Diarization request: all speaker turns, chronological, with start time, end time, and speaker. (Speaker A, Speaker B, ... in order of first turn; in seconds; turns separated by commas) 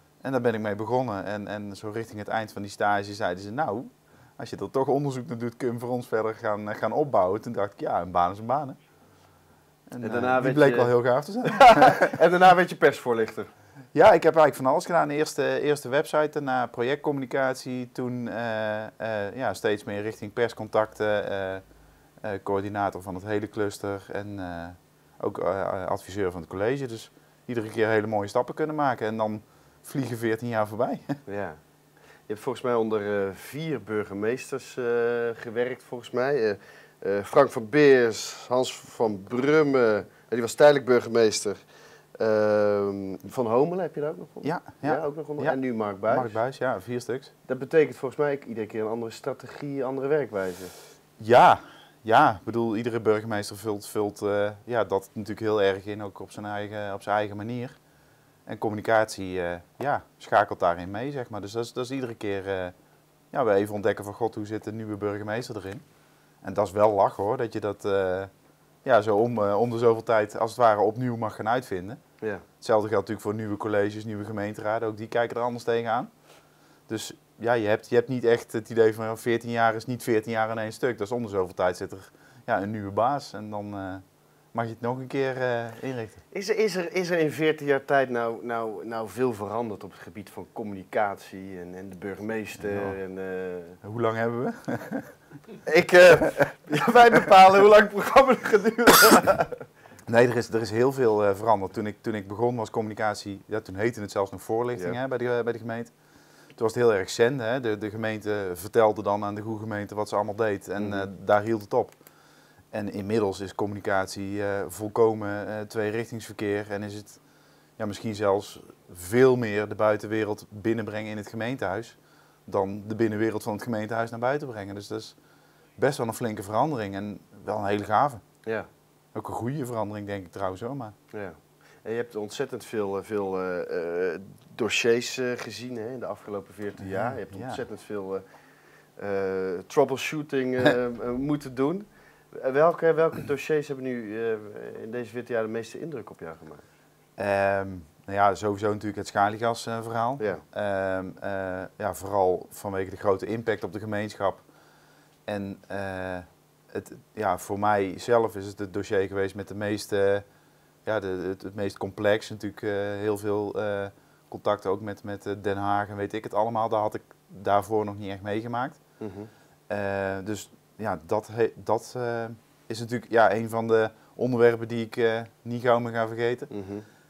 Speaker A: 0.2-8.8, Speaker A: 9.9-12.1, Speaker B: 10.0-10.9, Speaker B: 11.4-13.5, Speaker A: 13.9-21.6, Speaker A: 22.2-31.2, Speaker B: 31.3-31.6, Speaker B: 32.3-41.6, Speaker B: 42.2-46.3, Speaker A: 44.4-47.3, Speaker B: 47.5-50.7, Speaker A: 51.2-57.8, Speaker A: 58.5-62.7, Speaker A: 63.3-65.8, Speaker A: 66.4-68.3, Speaker A: 68.8-72.0, Speaker A: 72.6-76.1, Speaker A: 76.9-86.2, Speaker B: 86.3-93.8, Speaker A: 92.6-93.0, Speaker A: 93.8-95.1, Speaker B: 95.7-99.5, Speaker A: 100.1-105.9, Speaker A: 106.5-112.0, Speaker B: 110.8-111.1, Speaker A: 112.7-117.2, Speaker A: 117.8-125.2, Speaker A: 125.8-128.2, Speaker A: 129.1-130.9, Speaker B: 131.1-138.2, Speaker A: 136.8-137.6, Speaker B: 139.0-146.6, Speaker A: 147.2-154.4, Speaker A: 155.3-160.2, Speaker A: 160.8-168.8, Speaker B: 169.0-169.3, Speaker A: 169.7-176.5, Speaker B: 176.5-176.8